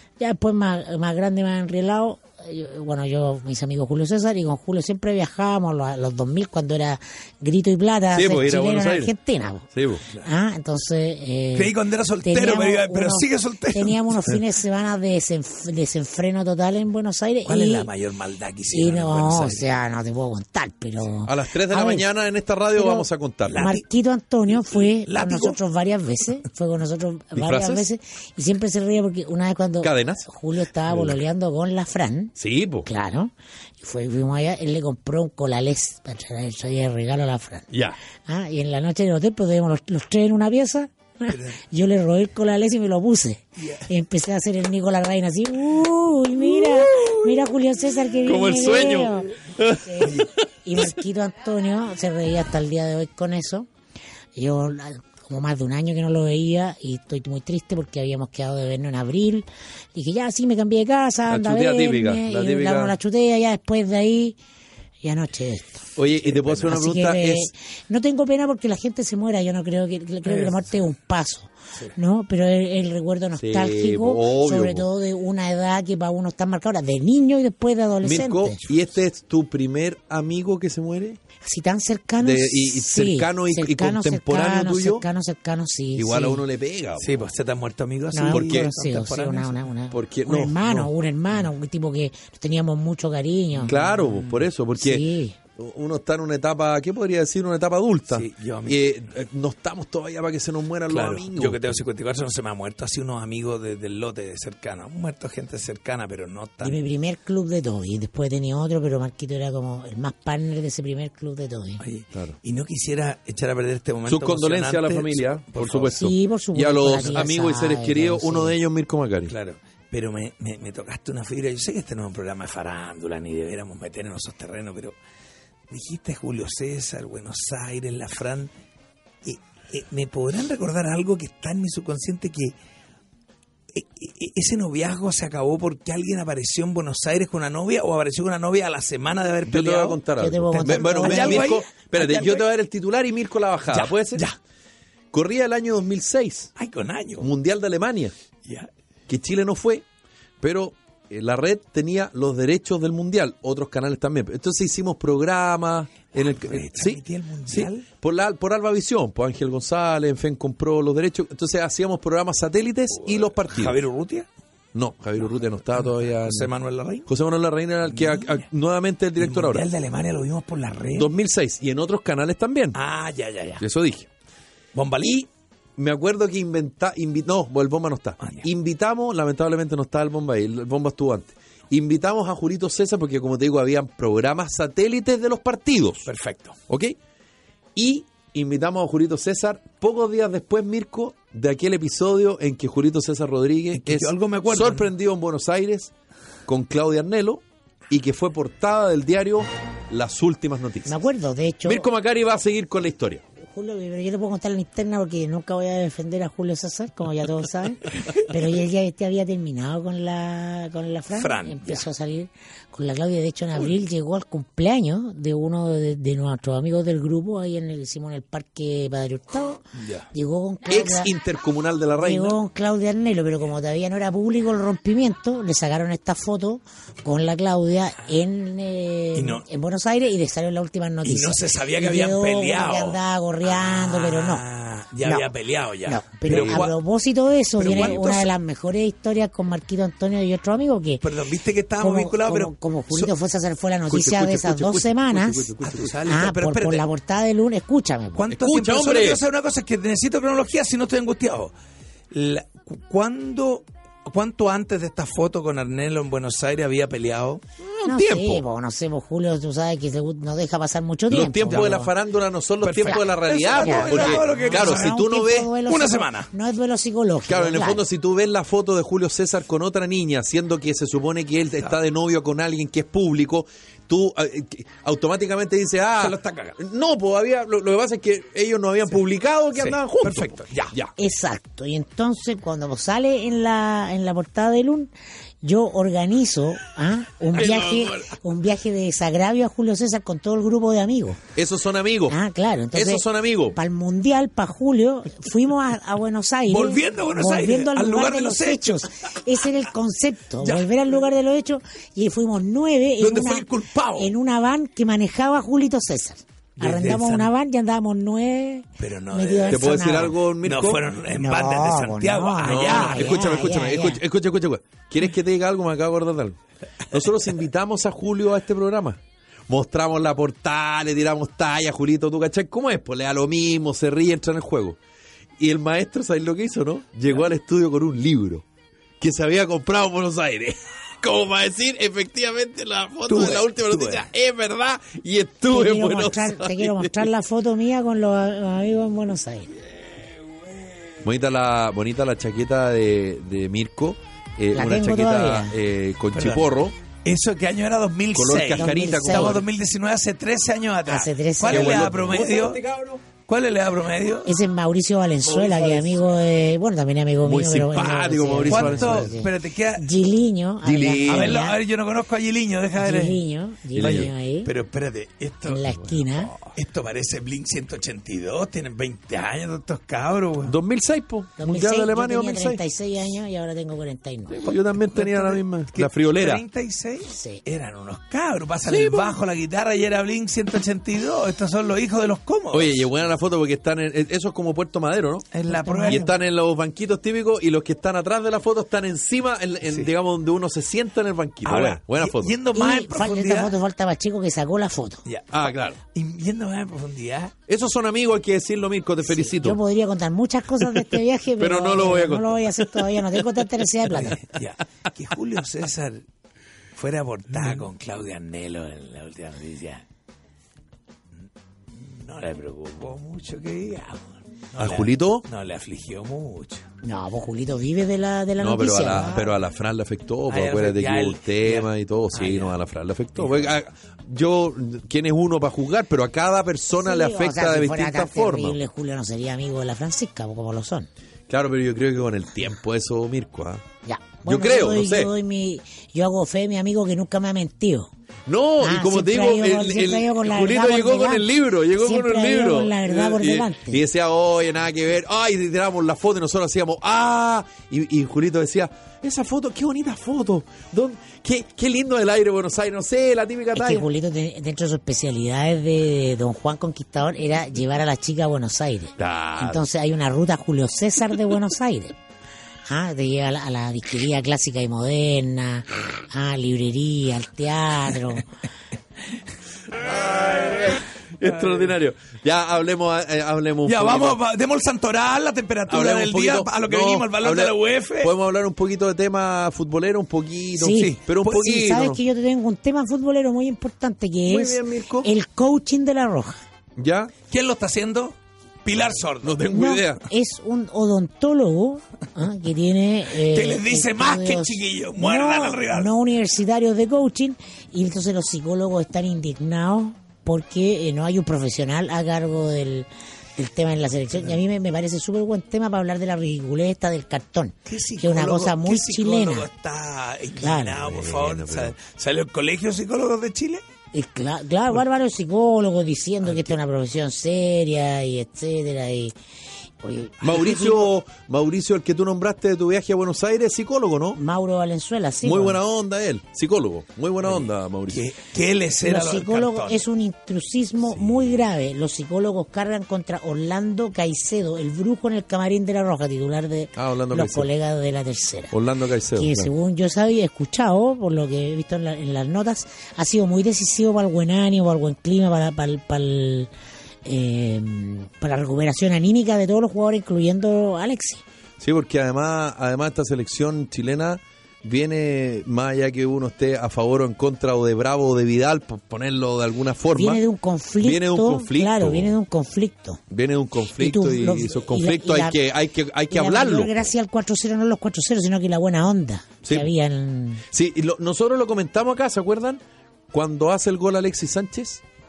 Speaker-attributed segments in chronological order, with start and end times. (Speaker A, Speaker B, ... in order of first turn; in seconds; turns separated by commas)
Speaker A: 0.2-9.7, Speaker B: 8.1-9.1, Speaker B: 9.7-10.0, Speaker A: 10.2-17.9, Speaker C: 11.5-14.2, Speaker C: 17.4-19.7, Speaker A: 18.7-22.1, Speaker B: 21.2-23.7, Speaker A: 22.7-32.3, Speaker C: 23.5-23.8, Speaker C: 24.5-25.6, Speaker B: 27.3-27.8, Speaker B: 29.8-30.2, Speaker B: 30.9-31.2, Speaker B: 32.4-32.9, Speaker A: 32.8-37.7, Speaker B: 37.7-38.0, Speaker A: 38.2-53.7, Speaker C: 41.3-41.6, Speaker B: 46.6-47.2, Speaker B: 48.2-50.3, Speaker A: 54.3-64.3, Speaker B: 61.3-63.0, Speaker A: 65.0-65.9, Speaker B: 66.0-67.5, Speaker A: 66.5-78.6, Speaker C: 70.2-70.7, Speaker B: 73.4-74.8, Speaker B: 78.0-81.2, Speaker A: 81.4-86.4, Speaker B: 82.2-85.0, Speaker B: 86.0-87.2, Speaker C: 87.0-89.6, Speaker A: 88.1-93.8, Speaker B: 88.2-88.7, Speaker B: 89.9-90.9, Speaker C: 93.6-94.5, Speaker B: 93.7-95.0, Speaker A: 94.8-95.4, Speaker B: 95.5-101.8, Speaker C: 98.1-98.8, Speaker C: 100.9-106.8, Speaker A: 106.6-111.8, Speaker C: 111.8-116.0, Speaker B: 114.0-119.3, Speaker A: 115.9-118.5, Speaker C: 119.3-124.9, Speaker C: 125.7-128.5, Speaker C: 129.2-132.5, Speaker C: 133.7-140.0, Speaker B: 139.5-144.2, Speaker A: 140.2-141.6, Speaker C: 140.6-142.4, Speaker C: 143.7-144.4, Speaker B: 145.1-146.5, Speaker C: 146.6-147.3, Speaker B: 147.2-148.1, Speaker C: 148.4-148.7, Speaker B: 149.1-149.8, Speaker B: 150.4-163.8, Speaker C: 156.1-157.9, Speaker C: 162.9-164.3, Speaker B: 164.7-166.5, Speaker C: 165.7-167.1, Speaker B: 167.1-169.7, Speaker C: 167.9-168.4, Speaker C: 169.2-171.1, Speaker B: 170.9-172.8, Speaker C: 172.7-173.6, Speaker B: 173.6-174.1, Speaker C: 174.7-175.2, Speaker B: 175.0-186.1, Speaker C: 178.2-178.5, Speaker C: 186.1-186.6, Speaker B: 186.7-186.9, Speaker B: 187.7-195.9, Speaker C: 193.7-194.9, Speaker B: 196.4-200.9, Speaker A: 200.8-201.9, Speaker B: 201.6-203.2, Speaker A: 203.4-221.1, Speaker C: 211.1-211.8, Speaker C: 219.8-220.1, Speaker B: 220.7-222.4, Speaker A: 222.0-234.4, Speaker C: 229.1-229.4, Speaker C: 231.0-236.7, Speaker A: 235.0-235.3, Speaker A: 235.8-241.0, Speaker B: 236.3-236.6, Speaker C: 237.6-238.3, Speaker B: 237.6-238.0, Speaker C: 241.0-243.1, Speaker A: 241.8-248.3, Speaker B: 243.9-246.0, Speaker C: 245.6-246.8, Speaker C: 248.2-251.5, Speaker B: 248.3-249.2, Speaker C: 252.1-257.4, Speaker B: 257.6-258.4, Speaker A: 257.8-261.9, Speaker B: 261.1-265.5, Speaker C: 261.5-261.7, Speaker C: 262.6-265.0, Speaker A: 262.9-267.8, Speaker C: 265.6-266.3, Speaker B: 267.3-280.9, Speaker C: 276.0-276.6, Speaker C: 279.5-280.8, Speaker A: 281.0-284.9, Speaker A: 285.4-291.2, Speaker B: 287.3-288.1, Speaker B: 291.3-292.2, Speaker A: 292.1-310.2, Speaker B: 292.7-293.6, Speaker C: 296.5-298.9, Speaker C: 300.4-300.7, Speaker C: 303.0-304.1, Speaker C: 306.6-307.3, Speaker C: 308.8-313.2, Speaker B: 309.5-310.9, Speaker A: 311.1-314.0, Speaker B: 312.4-324.8, Speaker B: 325.4-328.4, Speaker B: 329.0-337.1, Speaker C: 333.1-334.1, Speaker A: 335.5-339.5, Speaker B: 341.0-346.7, Speaker A: 344.5-345.5, Speaker C: 346.1-346.5, Speaker C: 347.0-352.6, Speaker B: 348.1-349.4, Speaker A: 348.5-349.4, Speaker A: 350.9-352.2, Speaker B: 351.5-353.0, Speaker C: 353.3-354.4, Speaker A: 354.2-361.6, Speaker B: 355.2-356.0, Speaker B: 357.2-359.2, Speaker C: 358.4-359.9, Speaker B: 360.6-361.4, Speaker C: 361.1-363.2, Speaker A: 362.8-364.5, Speaker B: 363.7-364.1, Speaker C: 363.8-370.6, Speaker A: 365.4-366.3, Speaker B: 370.4-372.6, Speaker A: 371.4-374.5, Speaker B: 374.3-376.4, Speaker C: 374.9-382.9, Speaker A: 377.1-377.4, Speaker B: 378.6-379.2, Speaker B: 382.5-385.3, Speaker C: 385.3-386.1, Speaker A: 385.5-386.1, Speaker B: 385.9-392.4, Speaker C: 389.6-389.9, Speaker C: 391.4-393.5, Speaker A: 392.5-395.0, Speaker C: 395.1-397.3, Speaker B: 395.3-395.8, Speaker B: 397.5-399.6, Speaker A: 399.0-404.2, Speaker B: 400.6-403.4, Speaker C: 403.9-406.0, Speaker C: 406.8-409.8, Speaker B: 407.4-407.6, Speaker C: 411.7-416.6, Speaker B: 414.6-415.2, Speaker A: 416.8-419.3, Speaker B: 418.4-428.6, Speaker C: 420.3-422.6, Speaker C: 423.1-423.5, Speaker A: 426.8-430.9, Speaker B: 431.3-433.6, Speaker A: 433.8-437.9, Speaker B: 434.2-435.1, Speaker B: 438.3-453.9, Speaker A: 438.6-443.8, Speaker A: 453.5-462.0, Speaker B: 459.0-459.6, Speaker A: 462.6-468.3, Speaker B: 469.7-474.2, Speaker C: 471.2-471.7, Speaker C: 473.6-478.1, Speaker B: 475.7-482.0, Speaker A: 480.6-486.4, Speaker C: 480.7-481.4, Speaker B: 484.2-485.1, Speaker B: 486.8-487.1, Speaker C: 487.3-489.4, Speaker B: 489.2-490.1, Speaker A: 489.4-509.5, Speaker C: 493.2-495.9, Speaker C: 507.6-513.6, Speaker A: 510.4-510.9, Speaker B: 510.7-511.7, Speaker A: 513.9-519.1, Speaker A: 519.8-520.9, Speaker B: 520.2-524.2, Speaker A: 524.1-525.6, Speaker B: 525.2-528.1, Speaker C: 527.9-529.8, Speaker A: 528.8-538.6, Speaker B: 531.0-531.4, Speaker B: 536.8-537.5, Speaker B: 538.5-539.5, Speaker A: 539.1-546.5, Speaker A: 547.0-551.2, Speaker B: 551.6-560.2, Speaker A: 559.9-563.0, Speaker B: 560.8-562.1, Speaker B: 563.1-566.9, Speaker A: 563.8-565.4, Speaker A: 566.1-570.4, Speaker B: 569.4-569.7, Speaker B: 570.5-572.6, Speaker B: 573.1-574.8